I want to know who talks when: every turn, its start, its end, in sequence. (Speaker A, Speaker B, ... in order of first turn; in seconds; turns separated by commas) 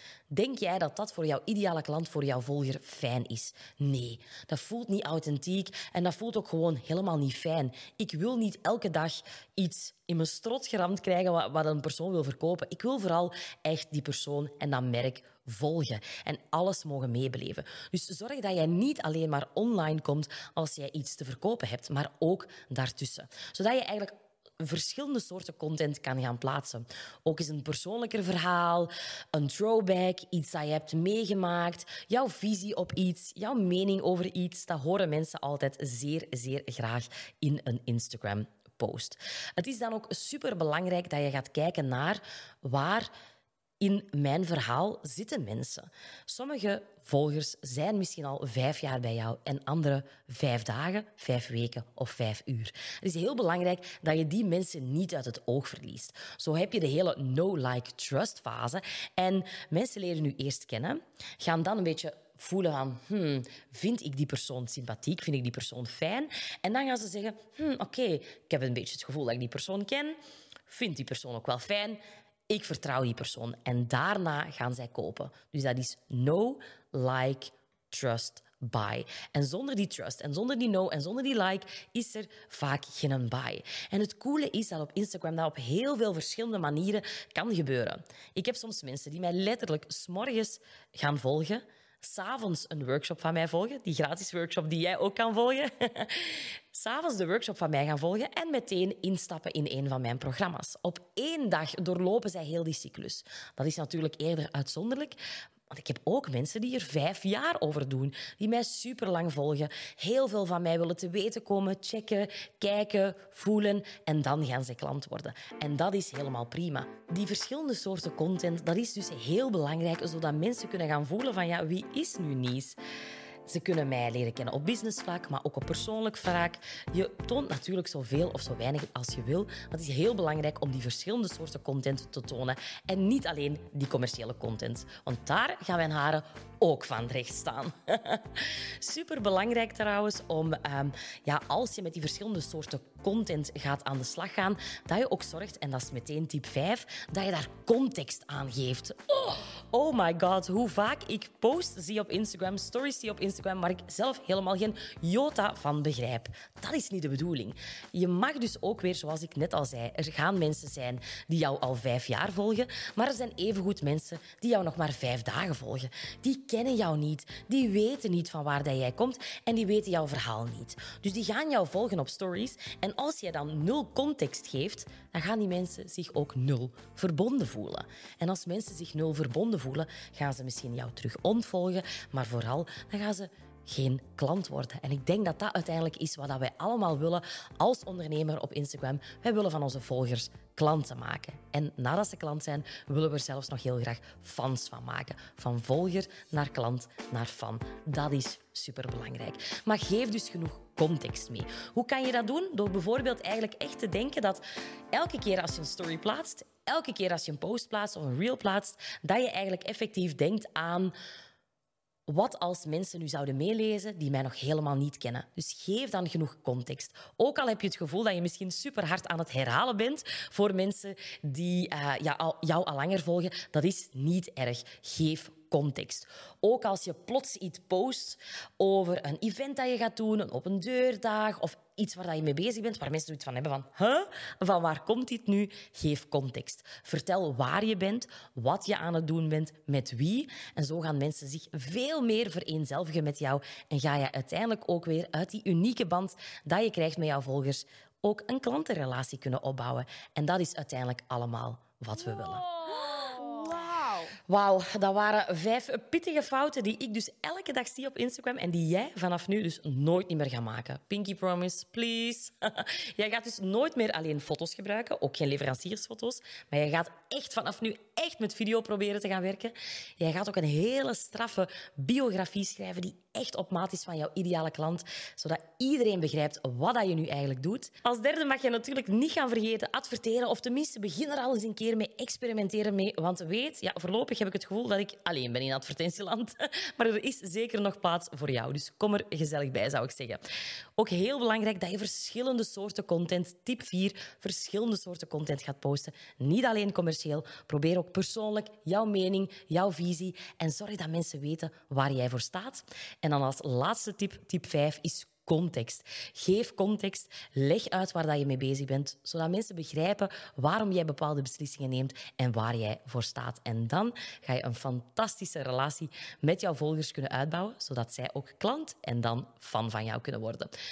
Speaker A: 0.3-43.1, Speaker A: 43.8-105.2, Speaker A: 105.7-122.8, Speaker A: 123.5-204.4, Speaker A: 204.9-210.9, Speaker A: 212.1-290.2, Speaker A: 290.8-320.5